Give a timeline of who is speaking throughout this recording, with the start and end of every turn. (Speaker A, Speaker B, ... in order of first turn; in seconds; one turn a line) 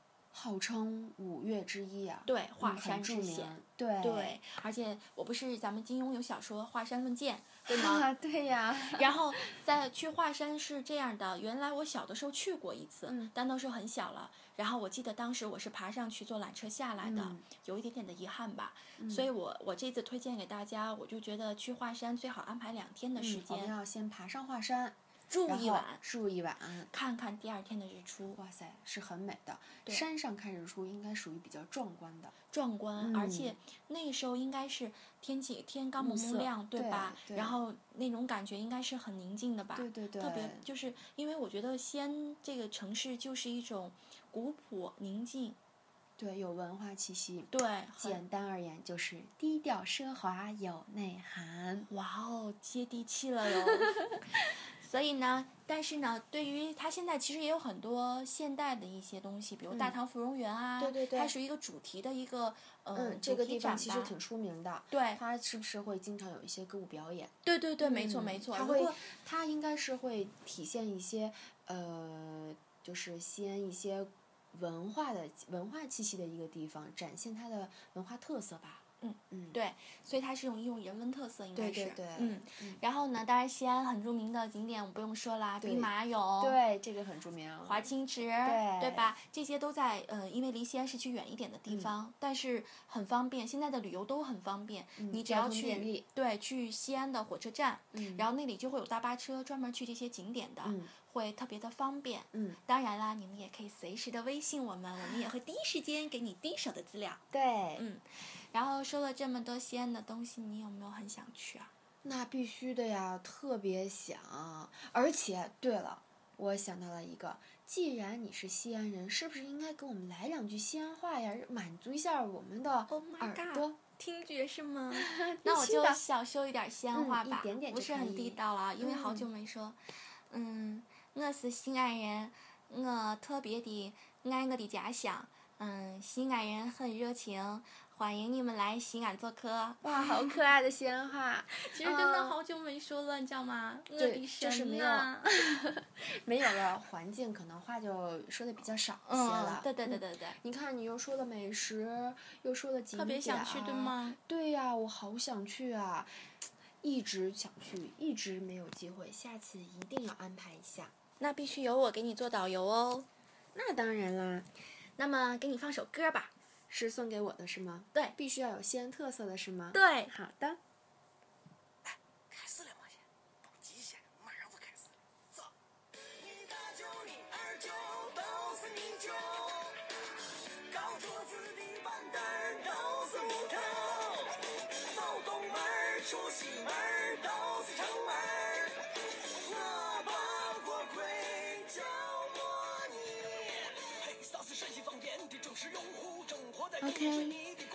Speaker A: 0.3-4.4
Speaker B: 2.3-8.1
Speaker A: 7.7-9.4
Speaker B: 8.9-23.7
Speaker A: 13.1-13.3
Speaker A: 17.0-17.4
Speaker A: 19.0-19.3
Speaker A: 23.2-24.9
Speaker B: 25.3-26.0
Speaker A: 25.5-26.9
Speaker B: 26.9-28.4
Speaker A: 28.4-32.3
Speaker B: 32.5-45.6
Speaker A: 33.0-33.5
Speaker A: 36.0-37.6
Speaker A: 39.7-40.6
Speaker A: 46.2-51.9
Speaker B: 47.5-48.2
Speaker B: 51.9-64.1
Speaker A: 59.7-59.9
Speaker A: 60.8-61.3
Speaker A: 62.9-79.6
Speaker B: 64.9-65.2
Speaker B: 67.4-69.0
Speaker B: 79.0-86.6
Speaker A: 81.5-82.8
Speaker A: 85.6-87.9
Speaker B: 87.6-107.2
Speaker A: 88.4-89.1
Speaker A: 91.7-91.9
Speaker A: 95.0-96.0
Speaker A: 97.9-98.3
Speaker A: 100.6-100.9
Speaker A: 102.3-102.6
Speaker A: 107.3-107.8
Speaker B: 107.8-111.7
Speaker A: 112.0-123.8
Speaker B: 122.9-129.8
Speaker A: 124.9-126.0
Speaker A: 126.9-129.3
Speaker B: 130.3-140.1
Speaker A: 139.8-142.3
Speaker B: 141.5-145.4
Speaker A: 144.0-156.2
Speaker B: 149.1-150.4
Speaker B: 152.9-154.2
Speaker A: 156.8-160.9
Speaker B: 161.2-163.1
Speaker A: 163.5-164.5
Speaker B: 165.0-166.3
Speaker A: 166.7-170.6
Speaker B: 169.7-170.1
Speaker C: 178.1-179.0
Speaker C: 180.8-183.6
Speaker C: 185.0-188.3
Speaker C: 189.6-192.2
Speaker A: 196.8-197.4